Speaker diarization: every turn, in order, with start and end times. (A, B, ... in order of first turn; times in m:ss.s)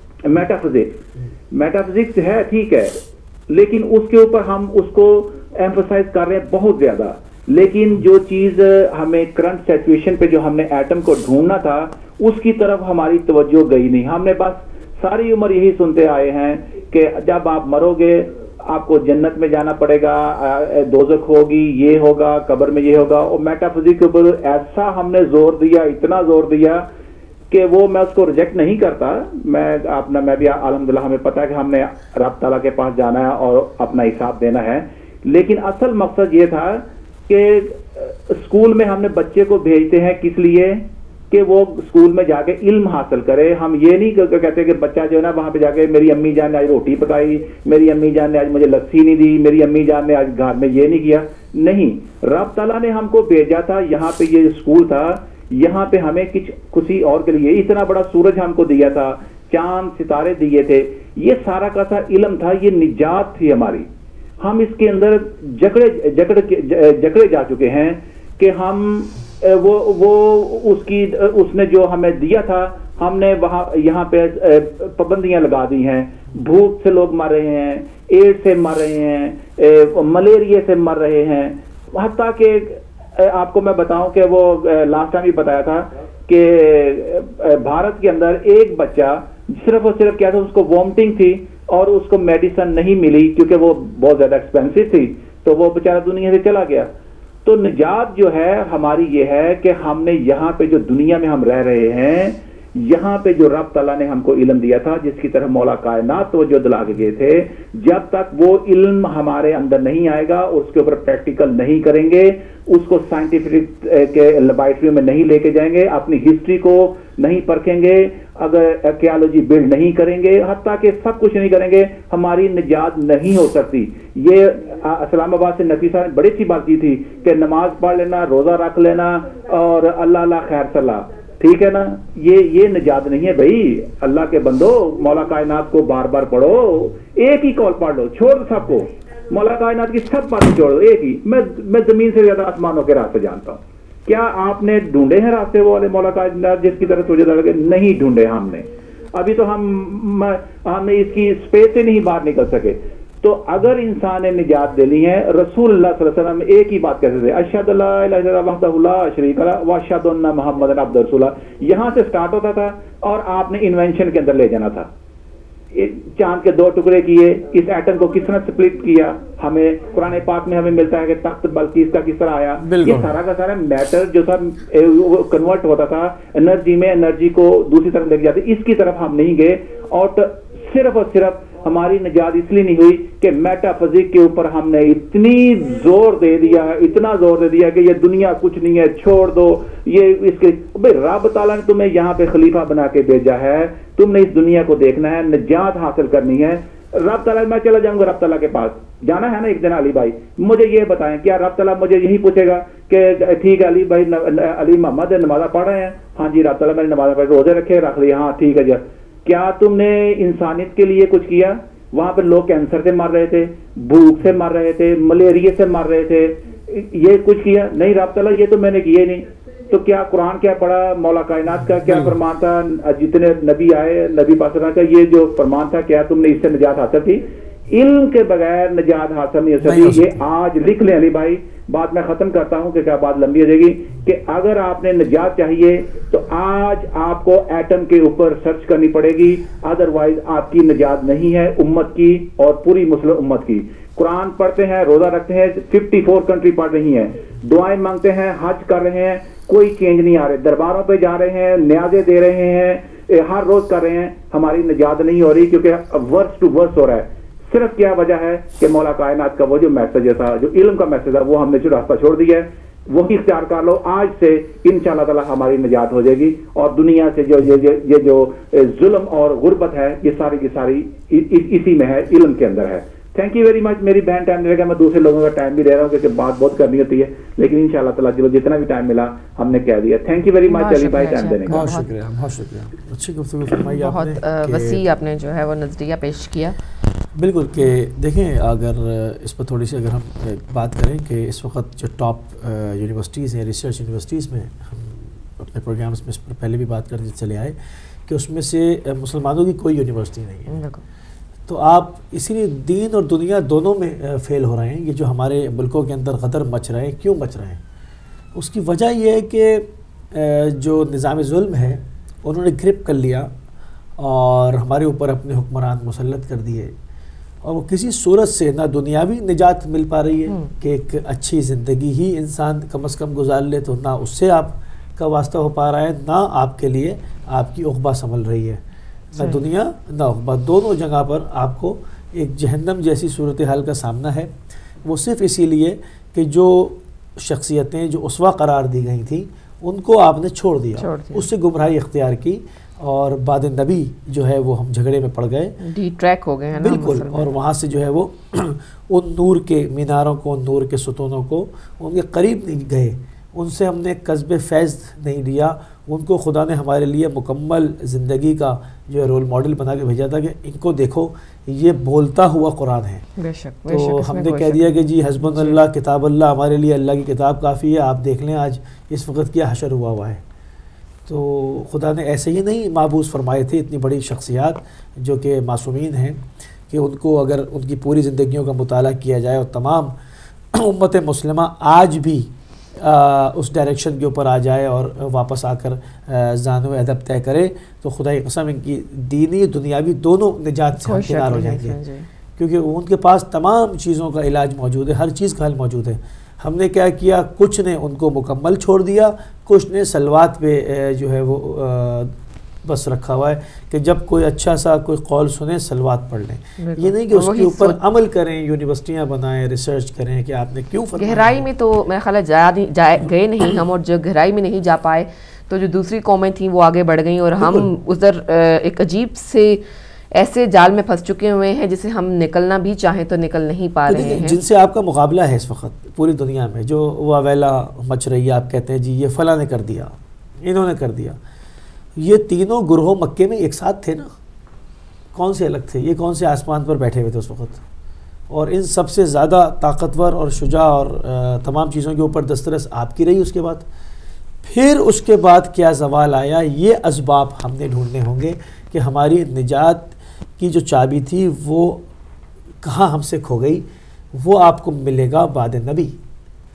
0:00.2-0:01.0 A
0:01.5-0:26.8 A
0:27.5-1:03.9 A
1:04.4-1:36.9 A
1:37.4-2:44.9 A
2:45.7-4:41.7 A
2:52.6-2:53.1 B
3:41.8-3:42.2 B
3:49.6-3:50.2 B
4:40.5-4:41.9 C
4:41.5-4:44.8 B
4:43.6-4:46.6 C
4:47.2-4:57.6 B
4:58.1-5:00.5 B
5:00.5-5:00.8 C
5:01.5-5:07.6 B
5:08.4-5:13.3 B
5:14.0-5:16.7 B
5:17.4-5:28.6 B
5:29.1-5:34.3 B
5:34.8-5:45.6 B
5:40.8-5:41.2 C
5:45.6-5:47.3 C
5:46.6-6:03.0 B
6:03.2-6:04.7 C
6:03.7-6:10.2 B
6:05.2-6:05.6 C
6:11.1-6:19.9 B
6:20.5-6:31.8 B
6:30.8-6:32.1 C
6:32.4-6:42.1 B
6:42.6-6:51.5 B
6:46.6-6:47.8 C
6:51.0-6:59.6 C
6:57.4-6:57.7 B
7:00.1-7:04.4 C
7:03.9-7:11.2 B
7:12.0-7:14.1 B
7:15.1-7:17.6 B
7:18.3-7:23.7 B
7:24.4-7:31.8 B
7:32.6-7:36.0 B